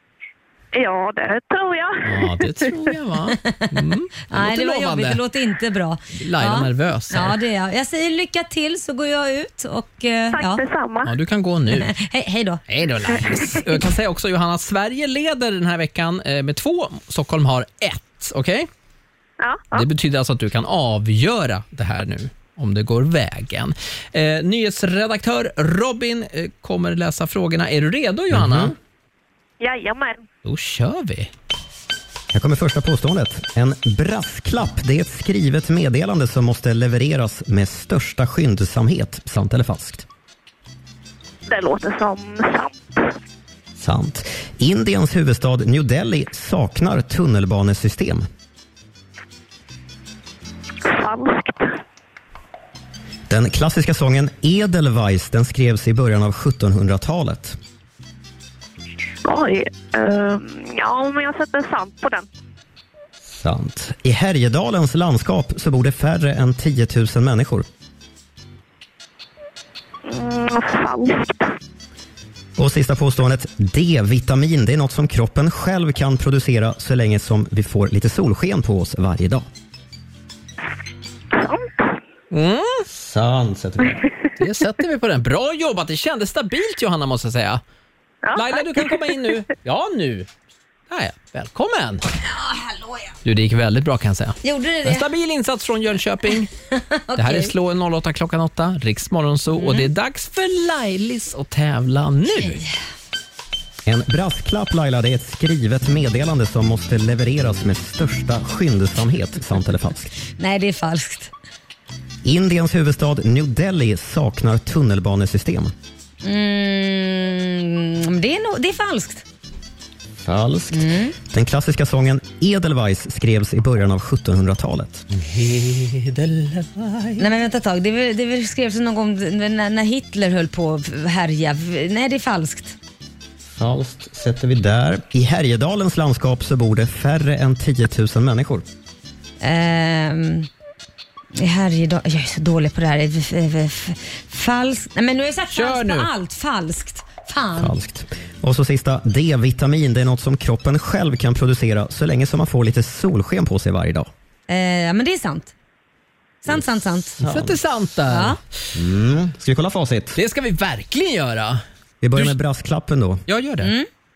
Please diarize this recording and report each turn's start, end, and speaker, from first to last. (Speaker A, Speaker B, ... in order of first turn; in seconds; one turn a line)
Speaker A: 0.7-2.9
Speaker B: 2.0-5.2
Speaker C: 3.4-3.7
Speaker C: 4.3-10.6
Speaker B: 6.1-7.4
Speaker A: 10.3-11.1
Speaker B: 11.0-11.9
Speaker C: 11.7-12.6
Speaker B: 12.7-18.7
Speaker C: 13.1-13.7
Speaker A: 19.4-19.9
Speaker B: 19.7-28.8
Speaker D: 28.3-28.7
Speaker A: 29.6-30.2
Speaker B: 30.4-31.3
Speaker D: 32.3-40.0
Speaker A: 41.5-43.1
Speaker D: 43.8-48.2
Speaker A: 50.8-51.7
Speaker D: 53.3-57.6
Speaker A: 59.2-62.2
Speaker D: 63.3-67.6
Speaker A: 70.0-71.5
Speaker D: 72.6-79.5
Speaker A: 81.3-81.8
Speaker B: 82.3-82.8
Speaker D: 82.9-84.0
Speaker B: 84.4-87.6
Speaker A: 88.3-89.0
Speaker B: 88.3-90.3
Speaker B: 90.9-92.0
Speaker C: 92.3-93.1
Speaker B: 93.2-96.5
Speaker C: 94.4-95.1
Speaker C: 96.7-97.5
Speaker B: 97.1-102.6
Speaker C: 99.5-99.9
Speaker C: 102.4-102.7
Speaker D: 103.8-110.1
Speaker C: 110.4-111.3
Speaker D: 112.2-115.7
Speaker C: 116.2-119.2
Speaker D: 120.2-125.1
Speaker C: 120.7-121.2
Speaker B: 125.1-127.3
Speaker C: 127.2-132.8
Speaker D: 133.6-138.6
Speaker C: 139.4-140.5
Speaker C: 141.3-147.7
Speaker B: 145.5-146.1
Speaker D: 147.6-154.1
Speaker C: 154.5-155.5
Speaker C: 156.4-157.2
Speaker D: 157.2-157.6
Speaker B: 157.2-158.4
Speaker C: 158.1-158.4
Speaker D: 158.8-160.2
Speaker B: 160.1-161.6
Speaker D: 162.0-163.2
Speaker B: 163.2-163.7
Speaker C: 163.6-163.9